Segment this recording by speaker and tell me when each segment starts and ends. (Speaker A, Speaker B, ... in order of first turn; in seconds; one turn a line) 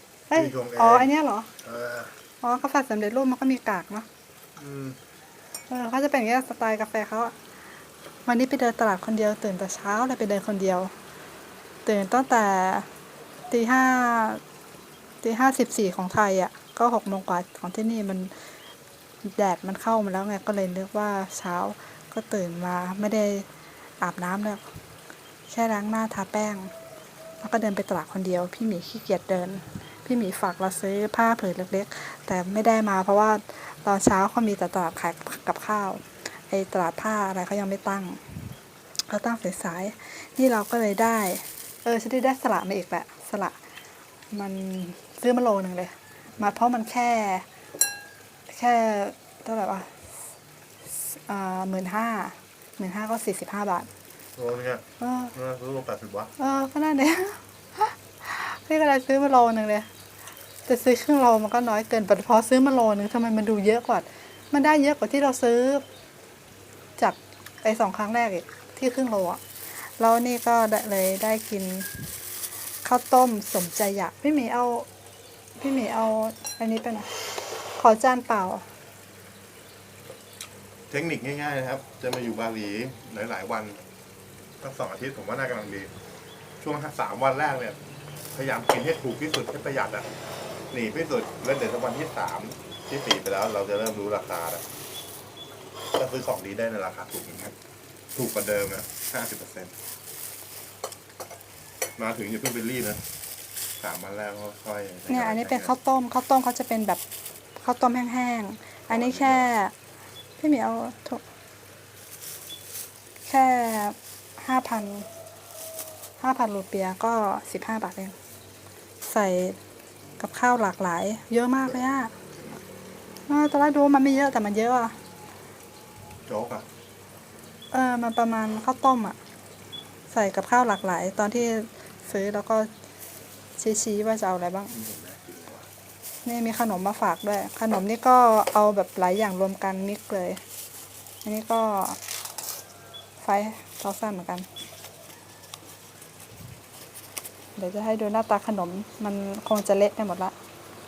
Speaker A: 0.3-1.5
Speaker B: 0.3-1.1
Speaker B: 1.6-2.1
Speaker A: 2.4-4.1
Speaker B: 4.6-5.0
Speaker A: 5.7-7.3
Speaker A: 8.2-10.9
Speaker A: 11.8-12.9
Speaker A: 13.5-14.4
Speaker A: 15.2-18.3
Speaker A: 19.2-23.5
Speaker A: 24.0-24.6
Speaker A: 25.5-26.7
Speaker A: 27.4-38.5
Speaker A: 39.1-43.6
Speaker A: 44.3-47.5
Speaker A: 48.5-50.1
Speaker A: 50.9-53.9
Speaker B: 54.4-56.3
Speaker A: 55.0-55.3
Speaker A: 56.4-59.9
Speaker A: 60.7-65.8
Speaker A: 67.0-72.1
Speaker A: 72.8-74.9
Speaker A: 75.6-77.1
Speaker A: 77.7-78.7
Speaker B: 80.9-83.8
Speaker B: 84.6-85.9
Speaker B: 86.6-87.8
Speaker B: 88.3-90.1
Speaker B: 90.7-94.6
Speaker B: 95.9-97.5
Speaker B: 98.1-99.7
Speaker B: 102.0-103.0
Speaker B: 103.8-105.7
Speaker A: 105.1-107.0
Speaker A: 107.6-109.7
Speaker B: 108.9-109.5
Speaker A: 110.4-111.2
Speaker A: 113.2-115.1
Speaker A: 116.2-118.2
Speaker A: 119.0-119.6
Speaker A: 120.2-122.1
Speaker A: 123.3-124.9
Speaker B: 126.3-126.7
Speaker A: 127.7-129.2
Speaker A: 130.1-132.7
Speaker A: 133.6-134.8
Speaker B: 134.7-135.6
Speaker A: 136.2-140.4
Speaker A: 141.2-142.0
Speaker A: 143.2-144.5
Speaker A: 147.6-150.3